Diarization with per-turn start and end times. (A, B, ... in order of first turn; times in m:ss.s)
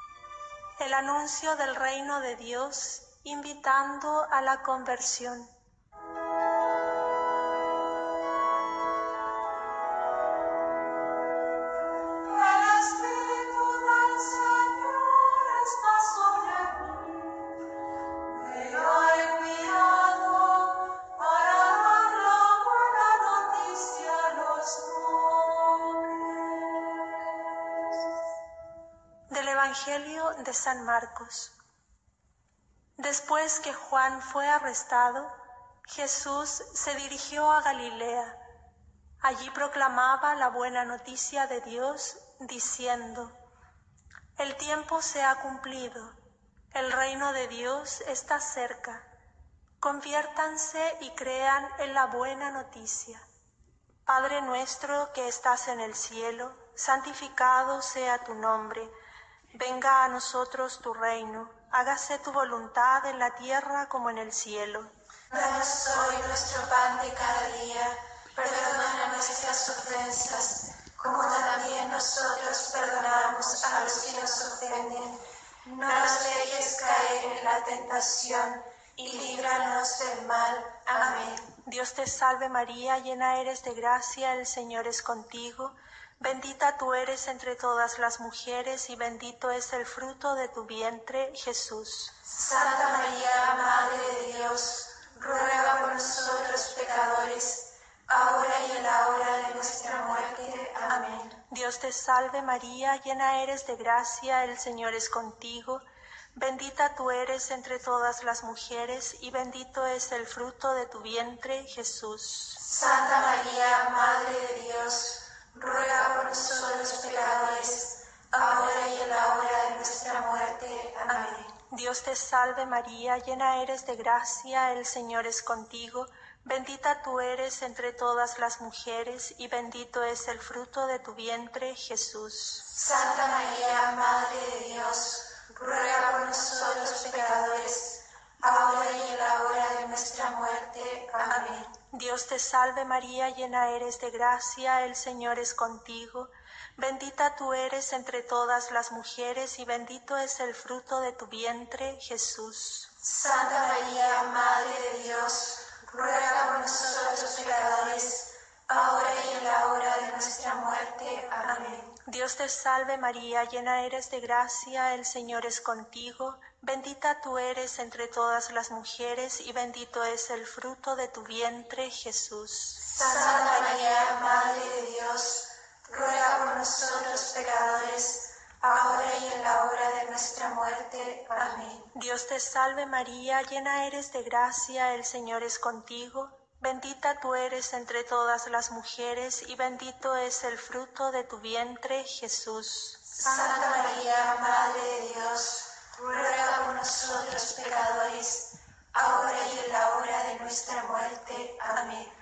0:00.8-0:05.5 A
0:12.3-0:17.5 B
0:18.3-0:27.0 B
0:29.3-0:31.5 A
0:33.0-0:35.3 A
0:35.9-0:38.4 A
0:39.2-0:43.3 A
0:44.4-0:46.2 A
0:46.7-0:49.0 A
0:49.8-0:53.2 A
0:54.1-0:58.9 A
0:59.5-1:04.9 A
1:05.3-1:21.5 B
1:21.6-1:32.2 A
1:32.2-1:41.4 B
1:41.5-1:45.8 A
1:46.4-1:52.6 A
1:52.6-2:01.5 B
2:01.7-2:12.7 A
2:12.7-2:21.7 B
2:21.9-2:32.9 A
2:33.0-2:41.9 B
2:42.0-2:52.8 A
2:52.8-3:01.9 B
3:01.9-3:13.2 A
3:13.1-3:22.1 B